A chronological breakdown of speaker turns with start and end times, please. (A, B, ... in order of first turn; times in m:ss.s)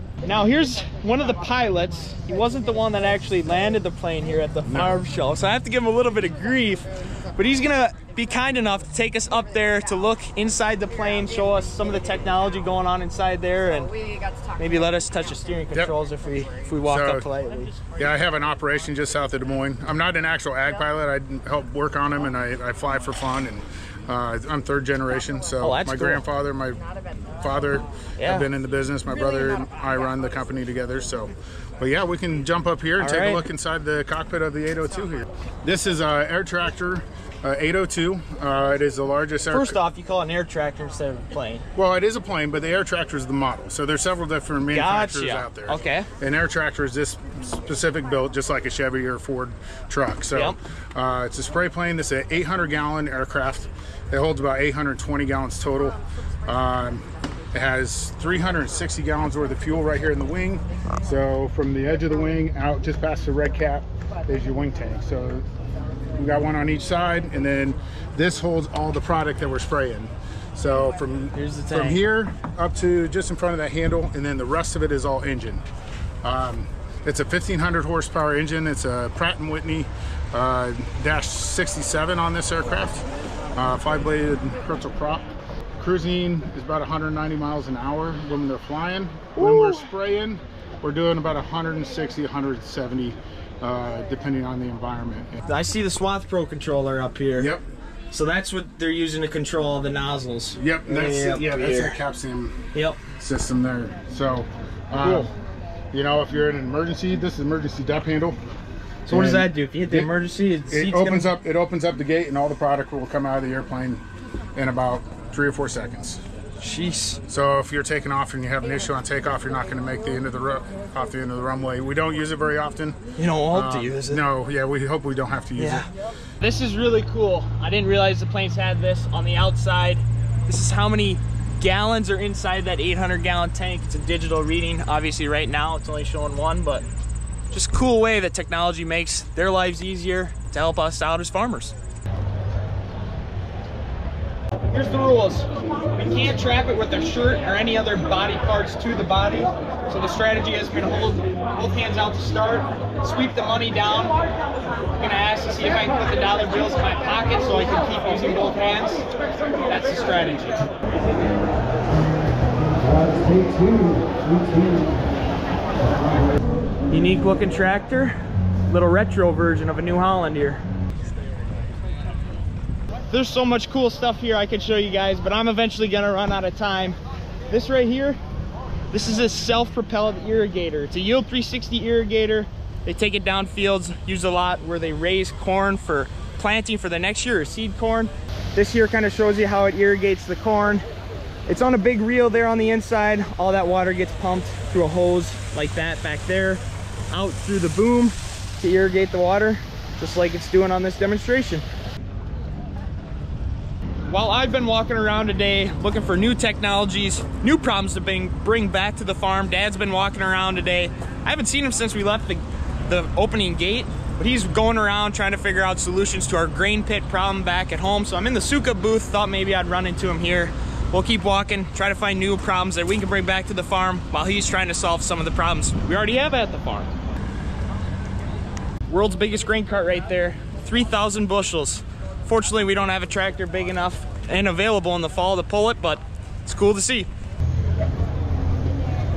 0:00.2-0:13.9 A
0:04.7-0:05.0 B
0:14.6-0:17.8 A
0:16.8-0:17.3 B
0:18.0-0:26.8 B
0:25.6-0:26.2 A
0:27.4-0:39.8 B
0:28.2-0:28.4 A
0:33.0-0:33.4 A
0:39.5-0:41.6 A
0:41.7-1:05.4 B
0:44.7-0:46.1 A
1:06.2-1:15.6 B
1:11.3-1:12.0 A
1:16.2-1:25.3 B
1:25.8-1:35.4 B
1:29.4-1:29.9 A
1:35.4-1:37.5 A
1:37.4-1:37.6 B
1:38.1-1:42.0 A
1:40.6-1:42.7 B
1:42.7-1:43.0 A
1:43.2-1:45.3 B
1:45.0-1:45.3 A
1:45.9-1:48.4 B
1:49.1-1:50.1 B
1:49.1-1:51.3 A
1:50.7-1:54.0 B
1:54.6-1:56.2 B
1:56.6-1:57.2 A
1:57.3-2:03.0 B
2:03.2-2:04.2 A
2:03.5-2:05.9 B
2:05.6-2:05.9 A
2:06.4-2:16.8 A
2:17.5-2:21.7 A
2:24.7-2:34.1 A
2:35.0-2:39.0 A
2:39.6-2:40.7 A
2:46.9-2:48.2 A
2:48.7-2:50.6 A
2:53.1-2:57.0 A
2:57.5-2:58.2 A
2:58.9-3:10.8 A
3:11.5-3:21.6 A
3:24.1-3:46.9 A
3:48.9-3:57.1 A